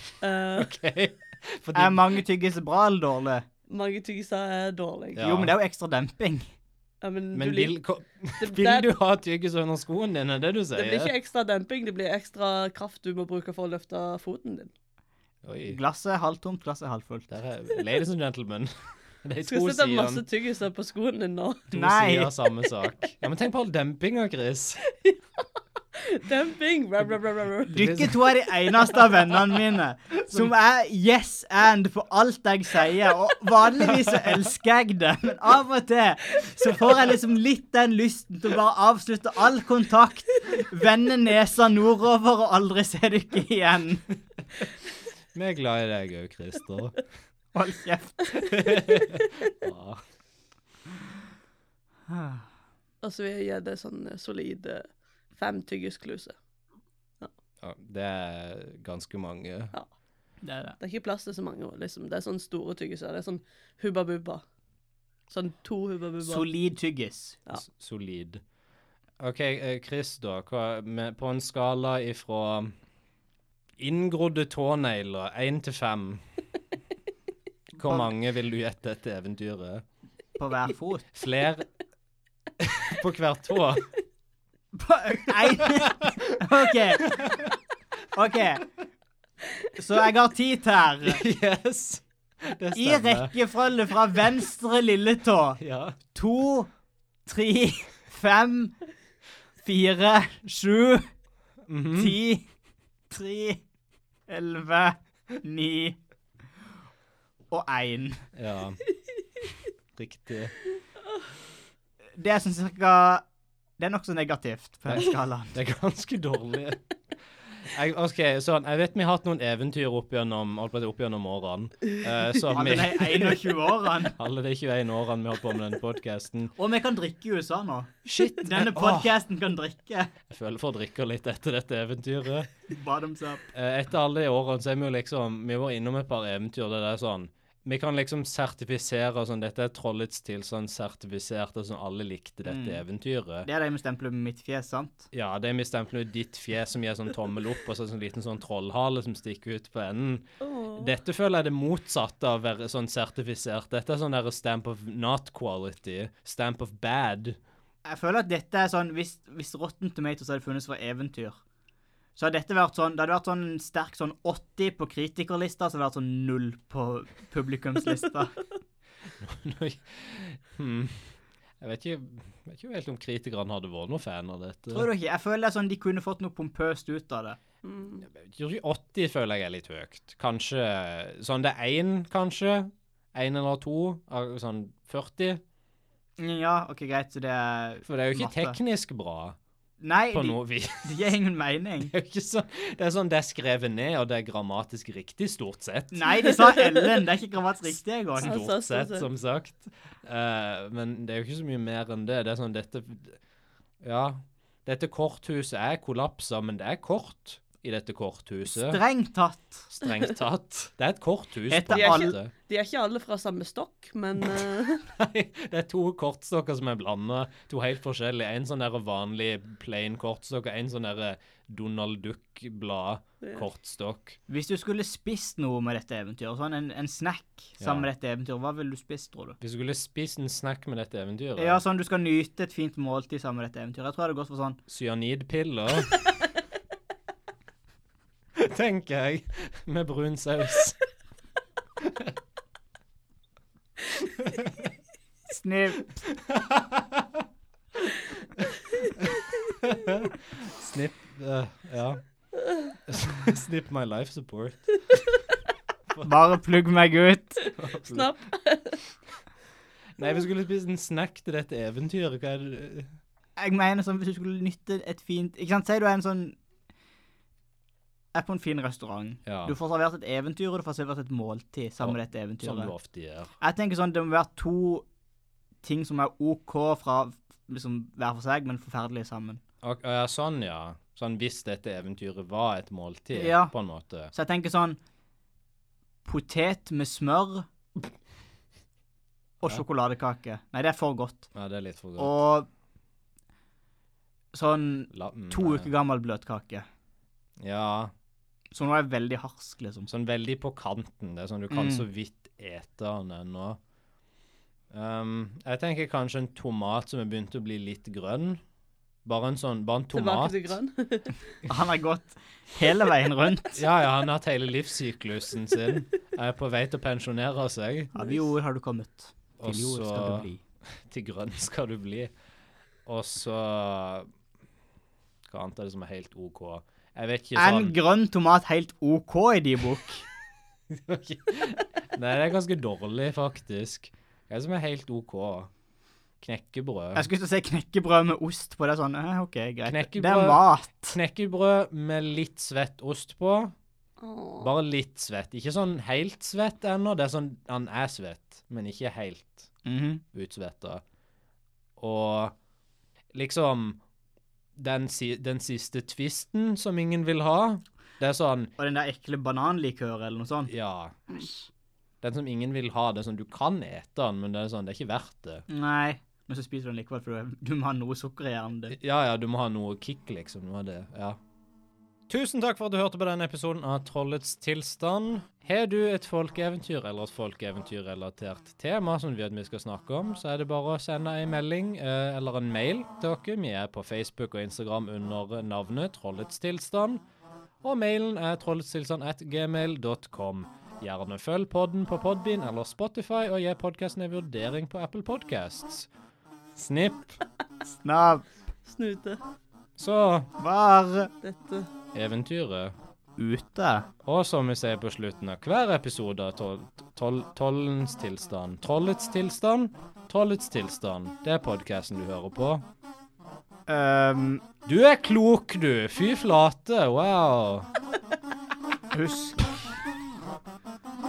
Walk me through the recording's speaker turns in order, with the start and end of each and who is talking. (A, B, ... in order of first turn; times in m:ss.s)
0:00.2-0:00.7 A
0:00.6-0:02.2 B
0:01.7-0:03.4 C
0:03.7-0:05.2 A
0:05.2-0:05.5 B
0:05.2-0:06.5 C
0:07.0-0:07.7 A
0:07.3-0:11.1 B
0:08.4-0:08.9 A
0:10.7-0:14.7 A
0:15.4-0:15.8 B
0:15.7-0:17.3 C
0:17.3-0:18.7 B
0:19.2-0:20.2 B
0:19.5-0:21.7 A
0:21.7-0:22.3 C
0:21.7-0:24.8 B
0:24.8-0:27.8 A
0:27.7-0:28.2 B
0:27.7-0:44.0 C
0:30.2-0:30.5 B
0:45.3-0:47.0 B
0:47.5-0:48.3 C
0:48.3-0:50.0 B
0:52.1-0:52.4 C
0:53.0-0:56.4 A
0:57.6-0:59.7 B
1:00.4-1:00.8 C
1:00.8-1:04.4 A
1:05.3-1:06.4 A
1:06.2-1:07.4 C
1:07.5-1:08.4 B
1:09.2-1:12.7 B
1:13.8-1:16.2 B
1:17.8-1:19.8 B
1:17.8-1:18.1 C
1:20.4-1:21.0 C
1:21.1-1:21.7 B
1:22.6-1:23.8 B
1:24.7-1:27.2 C
1:25.4-1:26.4 B
1:27.0-1:27.5 B
1:28.1-1:28.6 C
1:29.8-1:31.2 C
1:31.0-1:33.4 B
1:32.7-1:35.6 C
1:35.6-1:36.0 B
1:36.1-1:36.7 C
1:37.2-1:38.7 C
1:39.6-1:41.1 C
1:41.7-1:42.2 B
1:42.0-1:42.5 C
1:43.1-1:43.6 C
1:44.3-1:46.0 C
1:47.5-1:48.2 C
1:48.3-1:48.8 B
1:50.0-1:50.5 B
1:52.1-1:53.2 C
1:53.8-1:55.5 C
1:54.9-1:56.8 B
1:57.7-2:03.4 B
2:02.5-2:04.1 C
2:04.2-2:06.5 B
2:06.6-2:10.1 C
2:08.0-2:09.1 B
2:10.3-2:12.5 B
2:12.7-2:13.4 C
2:13.5-2:23.5 B
2:22.4-2:22.8 C
2:23.4-2:25.1 C
2:25.1-2:37.4 B
2:30.4-2:30.9 A
2:37.8-2:41.4 C
2:42.2-2:48.3 C
2:49.2-2:54.9 B
2:54.7-2:57.4 C
2:57.6-2:58.0 A
2:58.1-3:05.4 B
3:06.2-3:08.6 C
3:07.8-3:09.4 B
3:09.8-3:11.9 C
3:10.1-3:11.1 B
3:11.8-3:16.0 B
3:15.9-3:18.4 C
3:16.2-3:16.9 A
3:18.2-3:23.2 B
3:18.2-3:19.1 A
3:23.8-3:28.8 B
3:28.5-3:29.7 C
3:29.7-3:32.3 B
3:31.5-3:32.2 C
3:31.7-3:34.8 A
3:34.9-3:44.2 B
3:44.3-3:49.4 C
3:47.6-3:47.9 B
3:49.4-3:51.6 B
3:51.4-3:54.6 C
3:54.7-3:56.0 B
3:58.4-4:00.8 B
4:01.8-4:02.1 B
4:04.0-4:04.7 B
4:05.3-4:06.0 C
4:06.0-4:07.2 B
4:08.4-4:12.0 B
4:12.9-4:15.0 B
4:16.0-4:17.4 C
4:17.4-4:18.8 A
4:17.6-4:18.1 B
4:20.0-4:22.9 B
4:23.4-4:26.4 C
4:28.1-4:32.7 C
4:29.2-4:29.5 B
4:31.8-4:33.3 B
4:33.4-4:34.8 C
4:35.6-4:39.4 C
4:39.6-4:44.1 B
4:43.1-4:43.5 C
4:44.1-4:44.8 C
4:46.0-4:47.5 C
4:49.4-4:51.3 C
4:51.3-4:52.2 B
4:52.0-4:52.5 C
4:54.3-4:56.6 C
4:54.9-4:55.7 B
4:57.4-4:57.9 B
4:58.5-4:59.9 C
4:59.9-5:03.6 B
5:01.5-5:01.8 C
5:04.7-5:08.4 B
5:09.0-5:10.6 B
5:09.9-5:11.3 A
5:11.4-5:13.6 C
5:13.5-5:17.9 B
5:17.9-5:20.4 C
5:19.4-5:20.3 B
5:20.8-5:22.1 B
5:22.8-5:24.1 B
5:25.3-5:27.8 B
5:27.4-5:30.0 C
5:30.7-5:35.5 B
5:36.2-5:37.1 B
5:36.9-5:41.0 C
5:39.6-5:43.5 B
5:44.0-5:44.5 A
5:44.4-5:49.5 B
5:49.6-5:50.0 C
5:50.1-5:50.8 B
5:51.8-5:52.3 B
5:53.1-5:53.8 B
5:54.6-5:58.5 B
5:58.6-6:00.5 C
6:00.5-6:01.2 B
6:01.1-6:01.5 C
6:02.0-6:05.4 B
6:05.5-6:08.8 C
6:08.7-6:11.2 B
6:12.1-6:27.0 B
6:27.6-6:35.9 B
6:36.6-6:37.2 B
6:37.7-6:38.3 C
6:38.7-6:39.2 A
6:39.8-6:40.3 B
6:40.4-6:41.1 C
6:41.2-6:41.7 A
6:41.9-6:42.7 B
6:43.2-6:43.9 C
6:44.0-6:52.6 B
6:53.7-6:54.4 C
6:54.6-6:57.7 B
6:58.9-6:59.4 C